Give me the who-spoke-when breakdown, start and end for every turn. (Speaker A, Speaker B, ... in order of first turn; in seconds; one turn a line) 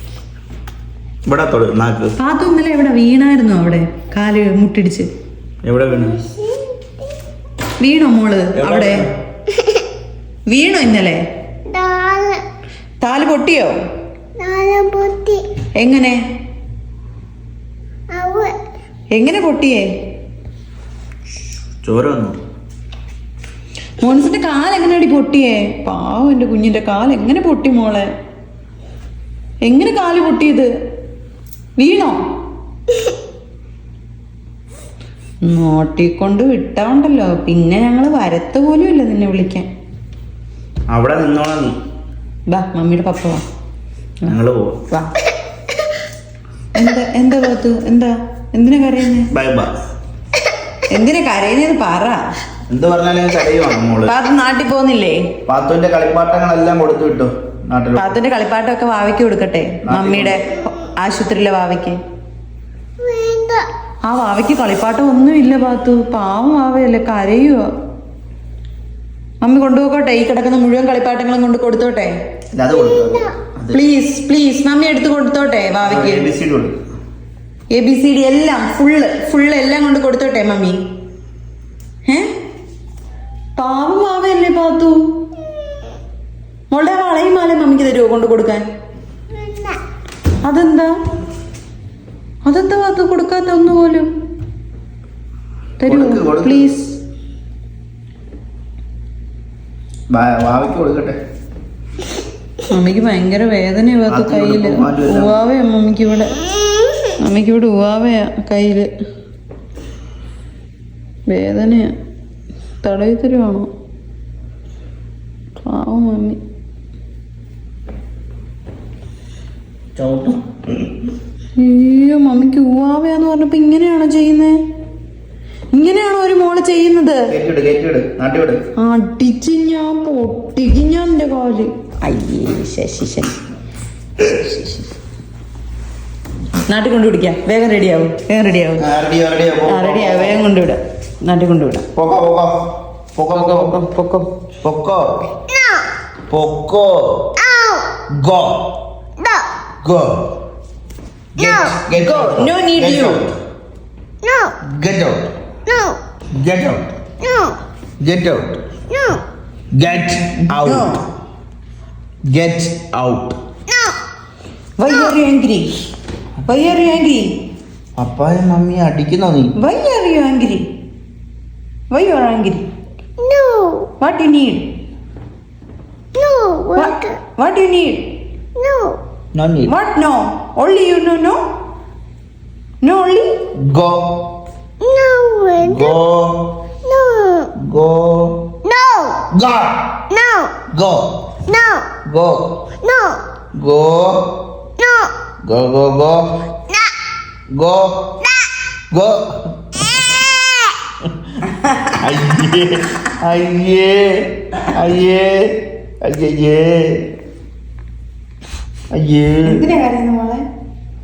Speaker A: 1.3-2.1
Speaker B: 2.2-5.1
Speaker A: 5.7-6.2
Speaker C: 5.9-7.2
Speaker B: 7.8-9.0
Speaker A: 8.6-9.1
Speaker B: 10.5-11.2
Speaker C: 11.7-12.4
Speaker B: 13.0-13.8
Speaker C: 14.4-15.4
Speaker B: 15.8-16.2
Speaker C: 18.1-18.5
Speaker B: 19.1-19.8
Speaker A: 21.8-22.4
Speaker B: 24.0-28.1
Speaker B: 29.7-30.7
Speaker B: 31.8-32.2
Speaker B: 35.4-39.7
Speaker A: 40.9-41.8
Speaker B: 42.5-43.4
Speaker A: 44.3-44.8
Speaker B: 46.8-49.3
Speaker A: 49.3-49.7
Speaker B: 50.9-52.2
Speaker A: 52.7-54.1
Speaker B: 54.0-55.3
Speaker A: 55.5-58.1
Speaker B: 58.0-62.0
Speaker A: 59.9-60.4
Speaker C: 63.0-63.6
Speaker B: 64.1-67.7
Speaker B: 69.4-72.1
Speaker A: 72.5-73.8
Speaker C: 72.7-73.3
Speaker B: 73.7-76.3
Speaker A: 75.8-76.8
Speaker B: 77.7-80.8
Speaker B: 83.6-85.0
Speaker B: 86.7-88.7
Speaker C: 89.3-89.8
Speaker B: 90.5-90.9
Speaker B: 92.5-94.1
Speaker B: 95.8-96.9
Speaker A: 95.9-96.8
Speaker A: 100.1-101.2
Speaker B: 102.7-106.4
Speaker A: 104.1-105.4
Speaker B: 107.2-108.9
Speaker B: 111.3-111.9
Speaker B: 112.8-113.7
Speaker B: 115.6-116.4
Speaker A: 120.0-120.6
Speaker B: 121.6-124.6
Speaker B: 125.7-127.3
Speaker A: 127.3-128.6
Speaker B: 128.8-133.4
Speaker B: 134.3-134.8
Speaker B: 136.7-138.9
Speaker A: 138.8-140.4
Speaker B: 139.7-141.9
Speaker A: 141.9-142.6
Speaker A: 143.2-143.8
Speaker B: 143.3-144.3
Speaker A: 144.6-145.1
Speaker C: 145.5-145.8
Speaker A: 146.3-147.3
Speaker C: 147.4-147.9
Speaker A: 148.2-148.7
Speaker C: 149.2-149.5
Speaker A: 149.8-150.2
Speaker A: 151.3-153.3
Speaker C: 151.4-151.8
Speaker B: 151.9-153.3
Speaker C: 154.2-154.6
Speaker A: 154.7-155.3
Speaker C: 155.7-156.0
Speaker A: 156.4-156.8
Speaker C: 157.2-157.6
Speaker A: 158.0-158.6
Speaker C: 158.9-159.2
Speaker A: 159.8-160.9
Speaker B: 160.5-161.0
Speaker A: 162.3-163.4
Speaker C: 163.7-164.0
Speaker B: 164.8-165.7
Speaker C: 164.9-165.2
Speaker B: 166.4-167.3
Speaker A: 168.0-169.5
Speaker B: 169.6-170.6
Speaker B: 171.9-172.7
Speaker C: 173.2-173.9
Speaker B: 174.0-174.7
Speaker C: 176.2-177.2
Speaker B: 176.8-178.1
Speaker C: 178.6-179.0
Speaker A: 179.4-179.8
Speaker B: 179.7-181.4
Speaker B: 182.8-183.4
Speaker A: 183.6-184.1
Speaker C: 184.8-186.0
Speaker A: 185.6-186.5
Speaker C: 186.8-187.5
Speaker A: 187.6-188.4
Speaker C: 188.6-189.3
Speaker A: 189.3-190.0
Speaker C: 190.1-190.6
Speaker A: 190.7-191.1
Speaker C: 191.5-191.9
Speaker A: 192.1-192.6
Speaker C: 192.8-193.2
Speaker A: 193.6-194.3
Speaker C: 194.8-195.1
Speaker A: 195.4-196.3
Speaker A: 197.5-198.2
Speaker A: 198.9-199.9
Speaker A: 201.9-207.1
Speaker A: 208.9-209.6
Speaker B: 209.4-210.4